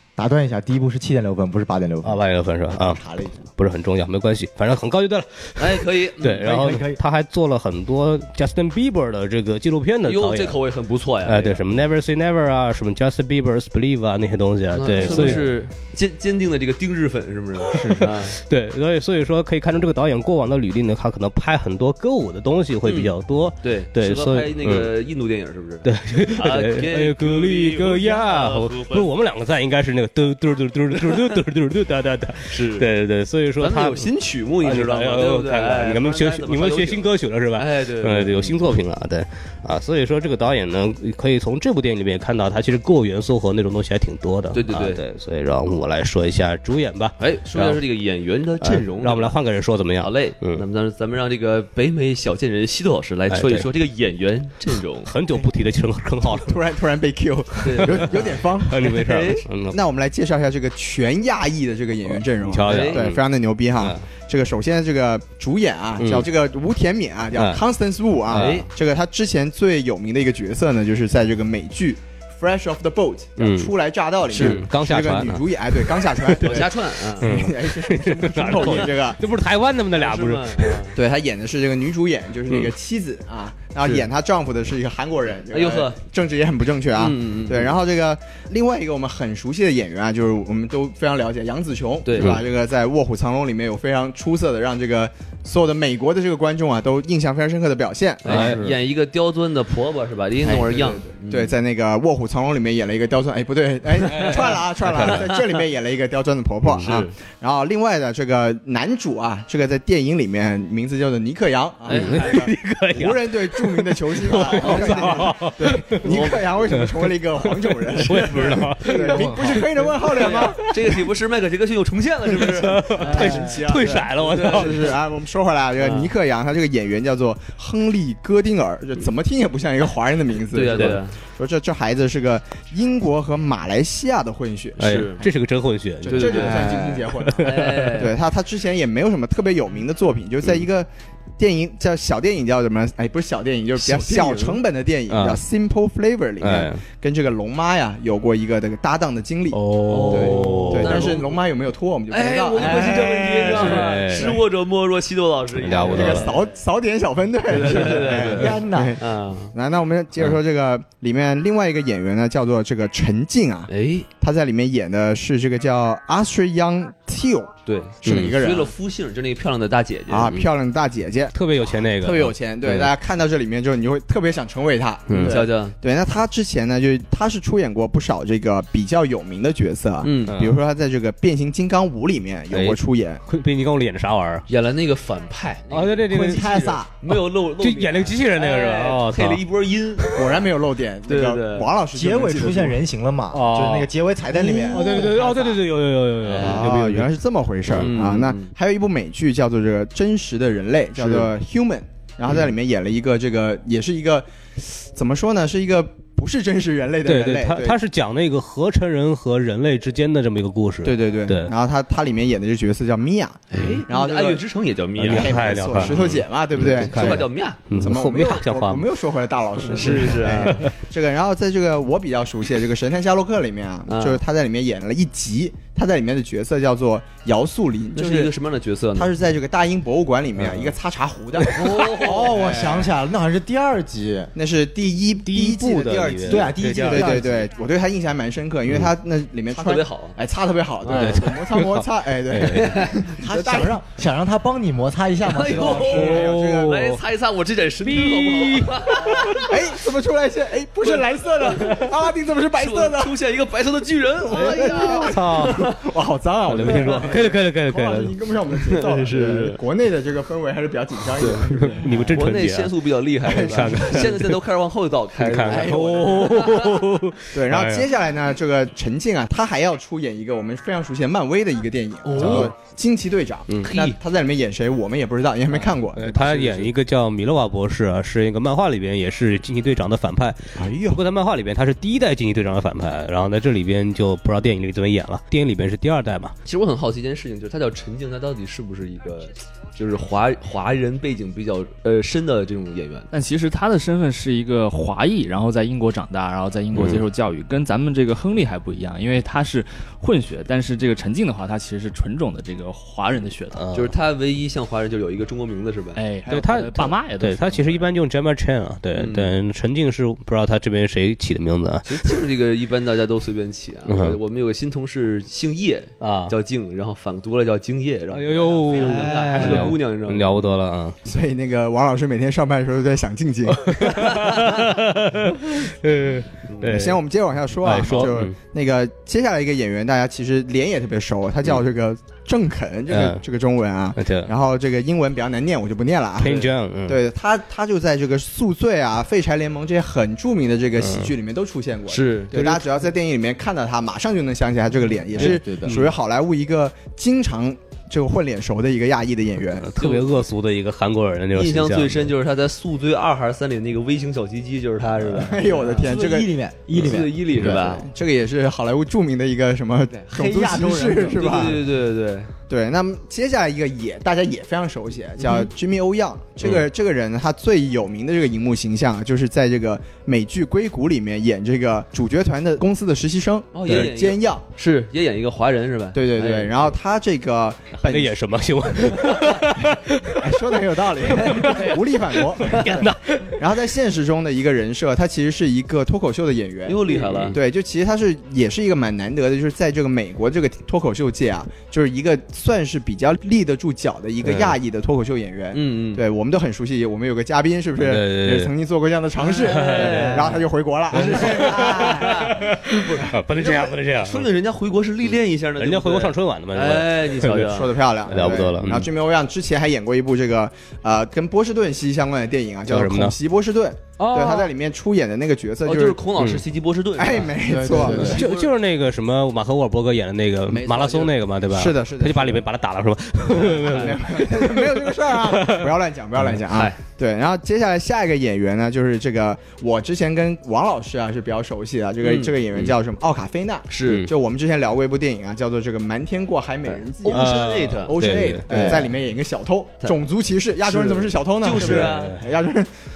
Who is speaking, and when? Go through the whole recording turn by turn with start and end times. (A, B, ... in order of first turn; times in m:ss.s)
0:00.2-0:03.4 A
0:02.0-0:03.0 B
0:03.6-0:10.6 B
0:05.6-0:06.5 C
0:06.4-0:07.0 A
0:10.1-0:11.6 C
0:11.2-0:15.5 B
0:14.7-0:18.4 C
0:17.7-0:24.9 B
0:22.8-0:29.1 C
0:25.8-0:34.1 B
0:31.0-0:31.2 C
0:32.5-0:32.9 C
0:33.6-0:38.6 C
0:34.6-0:47.8 B
0:44.5-0:45.0 C
0:47.2-0:49.4 C
0:48.6-0:50.6 B
0:50.0-0:55.1 C
0:53.3-0:53.7 B
0:55.1-0:56.7 B
0:56.3-0:58.9 D
0:57.6-0:59.5 C
0:58.6-0:59.8 B
0:59.7-1:19.2 D
1:02.1-1:03.2 B
1:02.6-1:03.0 C
1:06.0-1:06.3 B
1:07.4-1:07.6 B
1:08.3-1:08.6 B
1:08.3-1:08.7 C
1:13.4-1:13.7 B
1:14.3-1:16.7 B
1:14.3-1:14.6 C
1:16.4-1:17.3 C
1:17.2-1:20.8 B
1:18.6-1:18.9 C
1:19.9-1:21.0 C
1:21.0-1:38.6 D
1:25.5-1:26.0 C
1:27.0-1:27.8 C
1:32.0-1:32.4 C
1:38.2-1:41.5 C
1:38.3-1:38.7 B
1:40.4-2:00.6 D
1:44.1-1:45.4 C
1:44.9-1:45.2 B
1:46.7-1:47.1 C
1:51.9-1:52.4 C
1:51.9-2:00.5 B
1:54.4-1:55.5 C
1:56.0-1:56.6 C
1:58.0-1:59.3 C
1:58.9-1:59.6 A
2:00.1-2:03.3 C
2:02.3-2:05.0 B
2:03.0-2:03.7 A
2:03.0-2:15.1 D
2:04.2-2:04.7 C
2:05.8-2:06.1 C
2:10.5-2:11.2 C
2:14.8-2:15.2 C
2:14.8-2:18.0 B
2:16.0-2:34.3 D
2:16.0-2:18.2 C
2:23.8-2:24.6 C
2:25.1-2:25.4 B
2:26.4-2:26.8 B
2:29.5-2:31.1 B
2:29.9-2:31.4 C
2:32.1-2:36.4 C
2:32.6-2:33.4 A
2:32.8-2:34.4 B
2:35.6-2:36.3 B
2:35.9-2:48.7 D
2:37.5-2:39.5 C
2:38.1-2:39.0 A
2:43.7-2:44.1 C
2:47.7-2:50.3 C
2:48.0-2:48.4 B
2:50.1-2:51.4 D
2:51.3-2:52.4 B
2:52.0-3:03.2 D
2:55.1-2:55.4 B
2:55.2-2:55.7 C
3:00.0-3:00.4 C
3:00.3-3:00.6 B
3:02.5-3:04.4 B
3:04.5-3:10.2 C
3:05.7-3:06.6 B
3:06.1-3:06.9 A
3:07.1-3:09.4 B
3:10.1-3:12.8 D
3:11.1-3:11.7 C
3:11.9-3:15.1 A
3:13.3-3:13.9 B
3:14.4-3:15.5 D
3:14.7-3:17.1 B
3:16.2-3:16.6 C
3:16.4-3:27.8 D
3:17.7-3:17.9 B
3:17.7-3:18.5 C
3:21.0-3:21.3 C
3:27.0-3:31.5 B
3:30.8-3:34.4 D
3:33.5-3:37.6 C
3:35.0-3:38.9 B
3:35.1-3:48.3 D
3:39.7-3:40.7 B
3:39.7-3:40.6 C
3:43.9-3:44.2 C
3:48.0-3:49.1 C
3:49.0-3:52.8 D
3:50.4-3:50.7 B
3:51.5-3:52.9 C
3:52.0-3:54.3 A
3:54.4-4:03.8 D
3:55.2-3:57.3 B
3:56.3-3:57.5 A
3:59.5-4:00.2 C
4:00.8-4:01.2 C
4:00.9-4:02.9 B
4:02.5-4:03.0 C
4:03.2-4:06.2 A
4:05.2-4:09.6 C
4:05.5-4:06.9 D
4:05.8-4:07.0 B
4:07.8-4:09.5 B
4:09.5-4:13.2 D
4:10.8-4:11.9 C
4:12.5-4:15.8 C
4:14.3-4:22.1 D
4:14.3-4:15.6 B
4:16.5-4:18.2 B
4:16.6-4:17.1 C
4:18.7-4:19.6 C
4:21.2-4:21.5 C
4:21.5-4:22.7 B
4:22.1-4:26.8 C
4:23.2-4:24.1 D
4:23.3-4:24.4 B
4:25.2-4:27.9 B
4:27.3-4:36.6 D
4:32.0-4:32.5 C
4:32.2-4:32.5 B
4:33.5-4:33.9 B
4:33.6-4:34.0 C
4:35.5-4:46.3 B
4:36.2-4:36.7 C
4:40.6-4:41.0 D
4:46.4-4:53.1 C
4:53.1-5:03.6 E
4:56.7-4:57.1 B
5:03.5-5:03.9 B
5:03.7-5:06.0 C
5:06.0-5:07.9 E
5:06.3-5:12.2 B
5:09.0-5:09.3 C
5:11.8-5:20.4 C
5:13.9-5:14.2 B
5:16.0-5:16.3 B
5:18.1-5:21.0 B
5:18.8-5:19.7 A
5:21.0-5:24.1 D
5:23.7-5:27.0 B
5:23.9-5:24.5 C
5:26.5-5:26.8 C
5:26.6-5:49.7 D
5:27.6-5:28.4 B
5:32.9-5:33.2 B
5:34.0-5:34.3 B
5:36.2-5:37.0 B
5:40.8-5:41.1 B
5:41.9-5:42.4 C
5:45.2-5:45.8 A
5:45.6-5:45.9 C
5:49.6-5:52.1 B
5:49.8-5:50.1 C
5:51.4-5:55.9 C
5:55.1-6:01.6 D
5:55.7-5:57.4 A
5:56.7-5:57.9 C
6:00.0-6:01.6 A
6:01.0-6:02.3 C
6:02.5-6:14.4 D
6:05.2-6:05.5 C
6:13.5-6:16.8 C
6:15.9-6:18.2 D
6:17.9-6:23.4 B
6:20.2-6:41.6 D
6:21.1-6:21.8 C
6:22.4-6:22.7 C
6:26.7-6:27.4 C
6:34.2-6:34.6 B
6:35.5-6:36.0 C
6:37.8-6:38.5 B
6:39.2-6:40.4 A
6:39.5-6:40.3 C
6:39.5-6:40.3 B
6:40.9-6:42.3 A
6:40.9-6:44.3 B
6:41.0-6:47.7 C
6:45.6-6:48.9 B
6:47.3-6:56.0 D
6:52.7-6:53.2 B
6:54.0-6:54.5 B
6:55.6-6:58.5 C
6:56.2-6:56.4 B
6:57.0-6:58.2 D
6:57.4-6:58.2 A
6:57.9-7:05.7 B
7:00.5-7:02.4 D
7:03.3-7:22.7 D
7:03.6-7:03.9 C
7:06.5-7:06.8 C
7:12.0-7:12.7 C
7:13.7-7:14.1 C
7:13.9-7:14.1 B
7:16.7-7:18.0 C
7:17.1-7:18.8 B
7:18.5-7:18.9 A
7:20.7-7:22.2 C
7:21.6-7:22.2 B